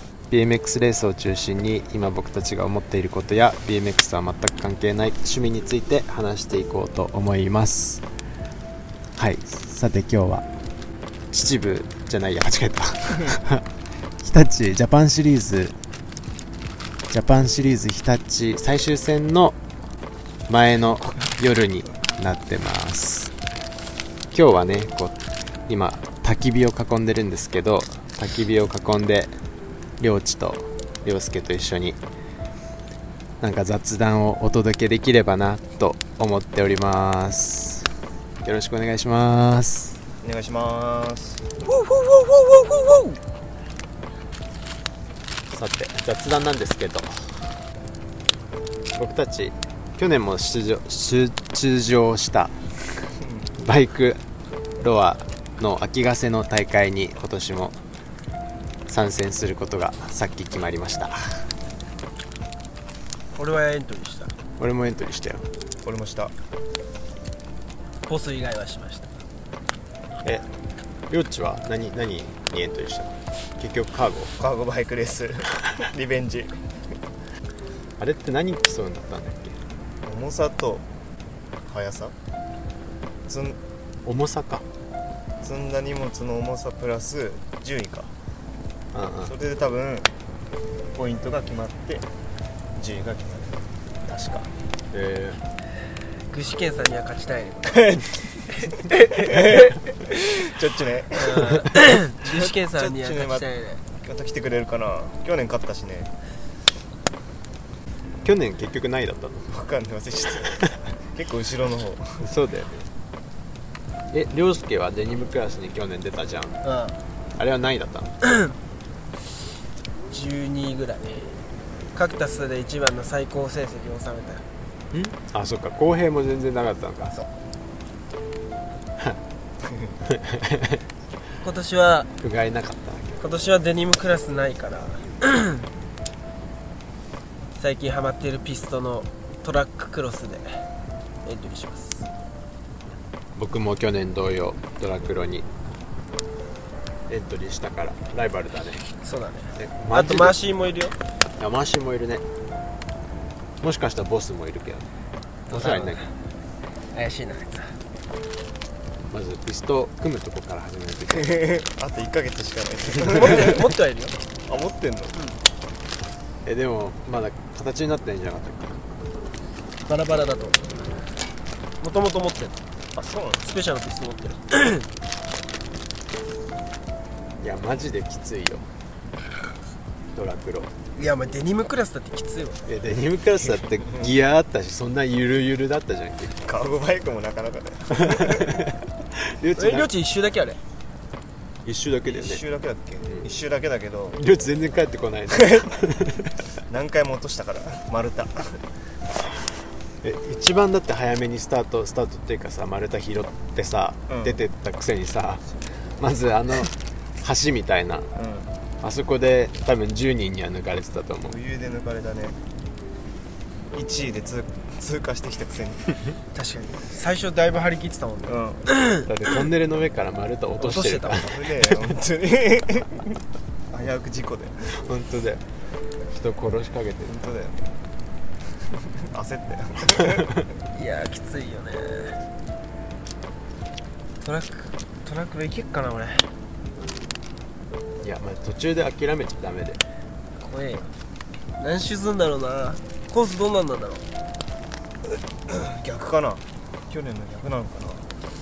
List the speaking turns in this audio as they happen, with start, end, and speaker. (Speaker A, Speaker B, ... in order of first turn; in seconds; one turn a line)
Speaker A: 0.3-8.0
Speaker A: 9.2-10.5
Speaker A: 11.3-13.7
Speaker A: 14.2-15.8
Speaker A: 17.1-19.6
Speaker A: 20.5-23.3
Speaker A: 24.3-25.2
Speaker A: 25.7-29.3
Speaker A: 30.0-32.0
Speaker A: 33.4-40.0
Speaker B: 40.2-41.5
Speaker C: 41.6-43.2
Speaker A: 45.5-47.6
Speaker A: 48.9-54.2
Speaker A: 54.8-57.8
Speaker A: 58.9-61.5
Speaker C: 63.4-64.3
Speaker A: 64.6-65.5
Speaker B: 65.8-66.3
Speaker C: 68.1-69.1
Speaker A: 71.1-74.3
Speaker B: 74.4-76.6
Speaker A: 78.0-79.6
Speaker B: 80.0-80.8
Speaker B: 81.7-82.1
Speaker B: 83.3-83.6
Speaker A: 84.0-84.7
Speaker B: 85.4-88.1
Speaker A: 88.9-89.3
Speaker B: 89.2-90.1
Speaker B: 91.0-92.1
Speaker B: 92.8-94.5
Speaker A: 94.9-95.4
Speaker C: 96.3-98.0
Speaker B: 97.8-98.0
Speaker C: 98.6-99.6
Speaker B: 99.1-101.7
Speaker C: 101.1-103.8
Speaker B: 102.2-103.5
Speaker B: 104.0-106.1
Speaker A: 108.2-109.5
Speaker B: 109.5-112.3
Speaker A: 112.2-112.9
Speaker A: 114.1-116.6
Speaker C: 116.6-117.0
Speaker A: 117.4-118.2
Speaker C: 118.2-118.5
Speaker C: 120.1-121.3
Speaker C: 121.9-124.4
Speaker A: 124.9-127.2
Speaker A: 130.1-130.8
Speaker C: 131.4-132.1
Speaker A: 132.2-133.2
Speaker C: 133.2-135.7
Speaker C: 137.6-140.6
Speaker C: 141.2-142.1
Speaker A: 143.3-145.5
Speaker A: 147.1-148.9
Speaker C: 149.0-150.9
Speaker A: 149.6-150.4
Speaker A: 151.4-152.2
Speaker A: 153.6-154.9
Speaker C: 155.5-156.1
Speaker A: 155.5-156.0
Speaker C: 156.9-157.8
Speaker A: 159.1-161.4
Speaker B: 161.2-163.6
Speaker C: 163.1-164.2
Speaker B: 164.5-165.2
Speaker A: 166.4-168.8
Speaker C: 169.8-171.0
Speaker C: 171.8-172.6
Speaker B: 172.9-173.4
Speaker C: 173.4-174.9
Speaker A: 177.4-178.7
Speaker A: 180.1-180.7
Speaker C: 181.0-182.6
Speaker A: 182.7-186.4
Speaker B: 183.5-184.1
Speaker B: 186.4-188.7
Speaker A: 187.9-189.9
Speaker C: 189.6-190.6
Speaker A: 191.7-192.4
Speaker B: 192.1-194.2
Speaker A: 194.2-196.4
Speaker B: 195.3-195.7
Speaker B: 196.7-198.6
Speaker A: 200.0-208.1
Speaker B: 204.1-204.4
Speaker B: 208.2-208.5
Speaker A: 208.8-211.4
Speaker B: 211.2-212.4
Speaker B: 213.7-215.9
Speaker C: 216.3-219.1
Speaker B: 218.3-218.7
Speaker A: 219.1-221.8
Speaker C: 220.6-221.3
Speaker B: 221.1-223.1
Speaker B: 223.7-224.7
Speaker A: 224.6-225.4
Speaker A: 226.1-227.3
Speaker B: 227.1-227.7
Speaker B: 229.0-230.4
Speaker A: 229.9-230.3
Speaker C: 230.7-232.2
Speaker C: 234.2-236.3
Speaker A: 238.0-239.8
Speaker C: 240.4-240.9
Speaker C: 241.6-244.1
Speaker B: 245.5-248.1